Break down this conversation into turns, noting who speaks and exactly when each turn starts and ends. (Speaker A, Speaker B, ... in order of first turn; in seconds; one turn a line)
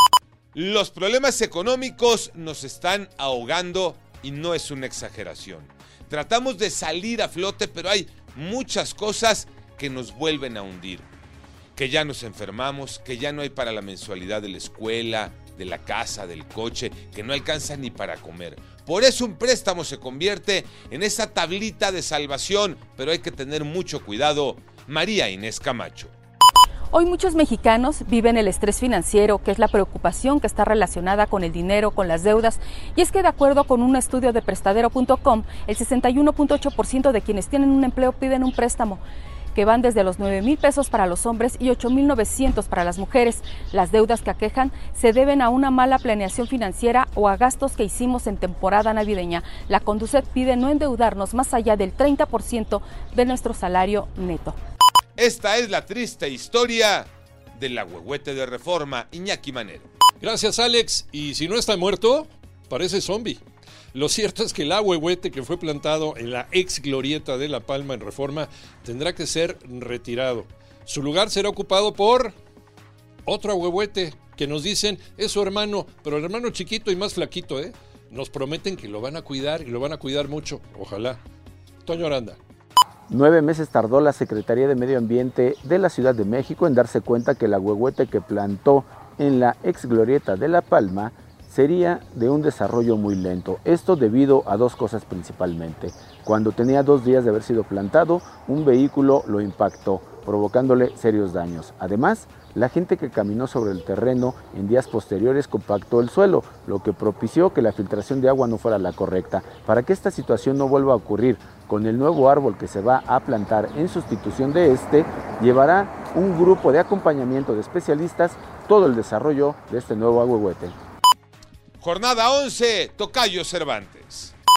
Speaker A: 0.5-11.1
Speaker A: 11.8-26.1
Speaker B: 26.9-39.0
Speaker B: 39.5-54.6
Speaker A: 55.2-59.9
Speaker C: 60.2-63.4
Speaker C: 63.9-72.3
Speaker C: 73.2-81.2
Speaker C: 81.8-82.4
Speaker D: 83.1-120.7
Speaker A: 121.8-124.3